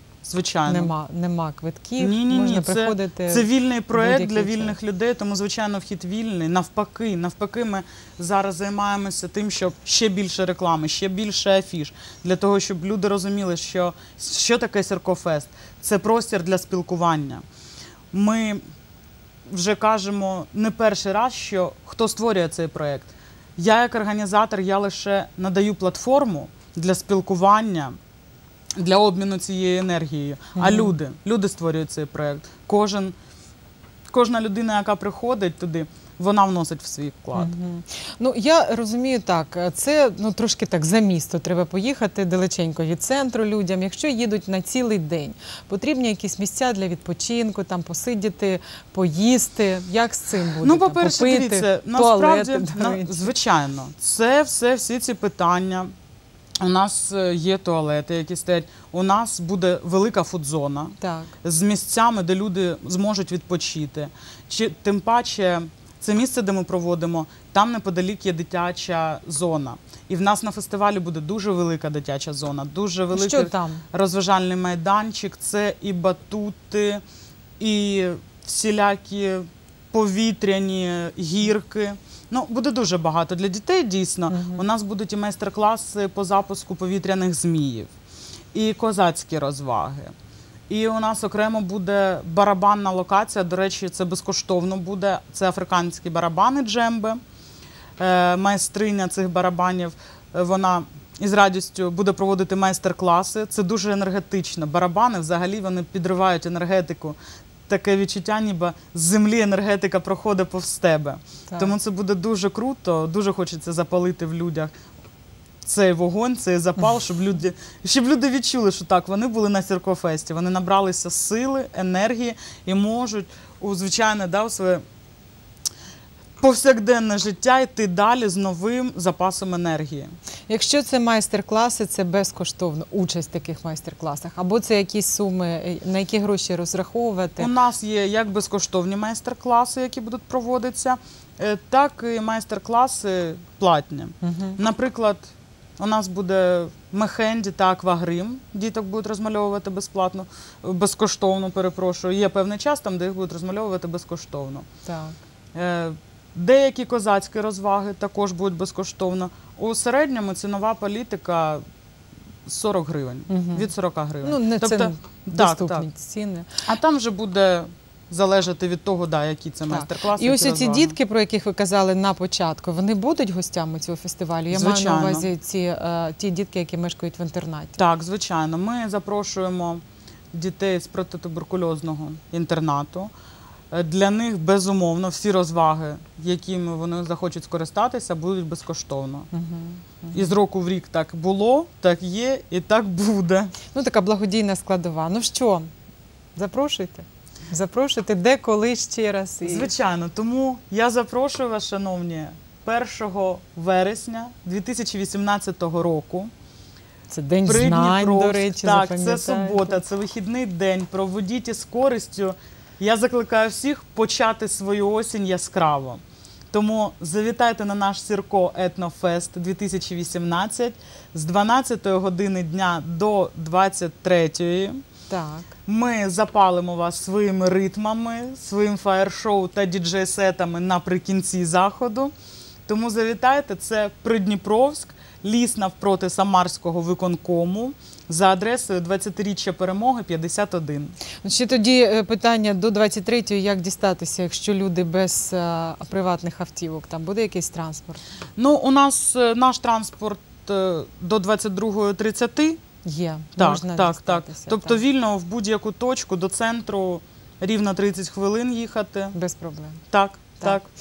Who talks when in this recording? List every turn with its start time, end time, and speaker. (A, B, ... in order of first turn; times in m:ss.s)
0:00.2-0:00.9 A
0:00.7-0:04.8 B
0:02.0-0:17.4 A
0:18.1-0:18.6 A
0:19.5-0:28.0 A
0:28.8-0:33.2 A
0:30.6-0:30.9 B
0:34.1-0:37.5 A
0:37.3-0:53.3 B
0:50.6-0:55.9 A
0:56.6-1:17.0 A
1:01.0-1:01.3 B
1:13.1-1:13.8 B
1:17.6-1:27.9 A
1:24.3-1:24.7 B
1:28.5-1:30.1 A
1:30.7-1:37.2 A
1:38.0-1:47.2 A
1:47.7-1:54.7 A
1:55.6-2:04.8 A
2:06.4-2:10.1 A
2:10.5-2:17.5 B
2:17.4-2:34.7 A
2:24.2-2:24.6 B
2:34.8-2:35.2 B
2:35.5-2:41.6 A
2:42.4-2:45.9 A
2:43.3-2:43.7 B
2:44.2-2:46.5 B
2:46.7-2:51.0 A
2:49.7-2:57.8 B
2:54.5-2:55.3 A
2:57.8-2:59.8 A
3:00.3-3:03.1 A
3:03.7-3:09.3 A
3:09.3-3:10.3 B
3:10.1-3:13.6 A
3:13.7-3:15.7 B
3:16.4-3:19.7 B
3:19.4-3:26.3 A
3:27.1-3:29.8 B
3:27.4-3:44.8 A
3:45.1-3:45.5 B
3:45.7-3:52.1 A
3:52.7-4:01.0 A
4:01.2-4:08.0 B
4:08.4-4:12.6 A
4:12.8-4:14.8 B
4:13.4-4:19.2 A
4:19.1-4:19.8 B
4:19.9-4:20.7 A